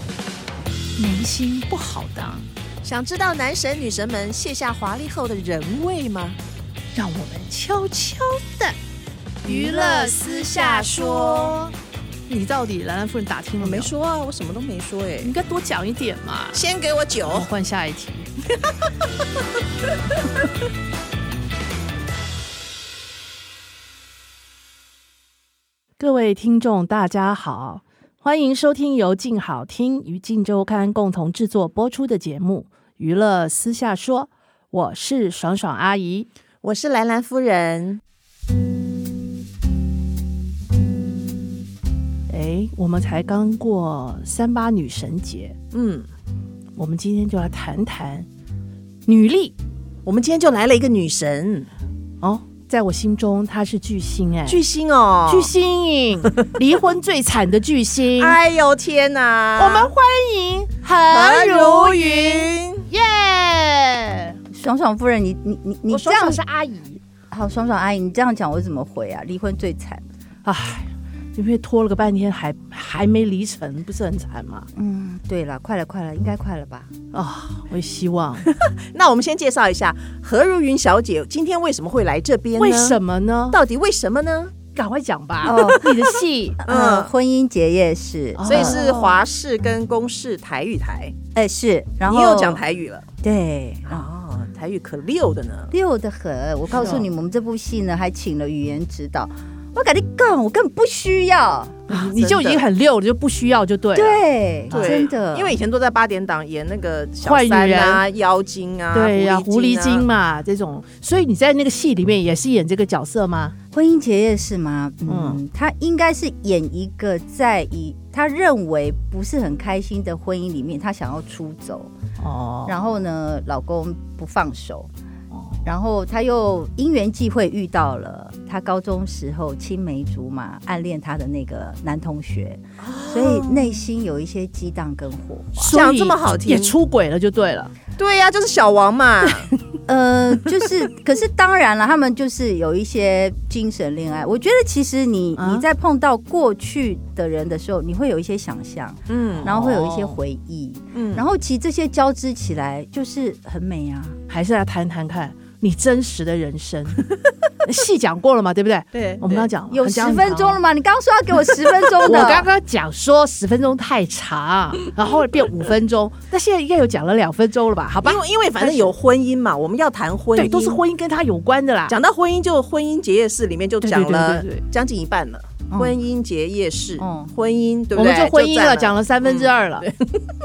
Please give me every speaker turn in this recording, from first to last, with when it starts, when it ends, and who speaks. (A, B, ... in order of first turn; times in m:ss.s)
0:01.0-0:02.4 A
0:02.8-0:06.4 B
0:06.9-0:08.8 A
0:09.4-0:11.6 B
0:09.4-0:11.7 A
0:12.3-0:13.9 A
0:13.6-0:15.3 B
0:15.2-0:16.6 A
0:16.5-0:17.5 B
0:17.2-0:18.3 A
0:26.0-0:36.3 A
0:36.6-0:38.0 B
0:42.3-0:45.6 A
0:45.7-0:46.1 B
0:46.8-0:48.3 A
0:49.0-0:49.5 A
0:50.0-0:51.7 B
0:52.2-0:54.6 A
0:54.4-0:55.5 B
0:55.3-0:58.4 A
0:58.2-0:59.9 B
0:59.6-1:04.4 A
1:01.1-1:02.8 B
1:04.5-1:06.4 C
1:05.9-1:07.0 A
1:07.3-1:10.0 C
1:10.4-1:14.7 A
1:14.7-1:16.9 C
1:17.1-1:18.5 A
1:18.5-1:23.0 B
1:22.6-1:23.6 A
1:23.5-1:24.6 B
1:24.7-1:26.6 A
1:25.4-1:25.8 C
1:25.5-1:26.0 B
1:26.6-1:28.9 C
1:26.6-1:27.1 B
1:28.3-1:29.2 A
1:28.4-1:31.2 B
1:31.3-1:32.6 C
1:32.0-1:33.1 B
1:33.2-1:34.0 C
1:33.8-1:35.7 B
1:35.7-1:41.9 C
1:36.8-1:37.0 A
1:41.9-1:42.6 B
1:41.9-1:45.1 A
1:43.9-1:45.6 C
1:44.7-1:50.0 B
1:47.2-1:48.0 A
1:48.9-1:53.5 A
1:53.7-2:01.9 C
1:55.1-1:55.4 A
2:02.2-2:02.8 A
2:02.7-2:04.9 C
2:05.6-2:15.8 C
2:12.8-2:13.8 B
2:15.6-2:17.7 A
2:15.6-2:16.7 B
2:18.0-2:19.5 B
2:19.9-2:34.2 C
2:25.4-2:25.7 A
2:29.1-2:29.6 B
2:29.3-2:30.2 A
2:30.9-2:31.2 B
2:34.3-2:37.0 A
2:37.6-2:40.6 A
2:38.9-2:39.5 B
2:39.7-2:42.5 C
2:42.0-2:48.9 A
2:48.0-2:50.8 B
2:50.3-2:52.0 A
2:51.9-3:00.2 B
2:53.8-2:54.6 A
2:55.7-2:56.0 C
2:57.0-2:57.3 C
2:57.9-2:59.9 A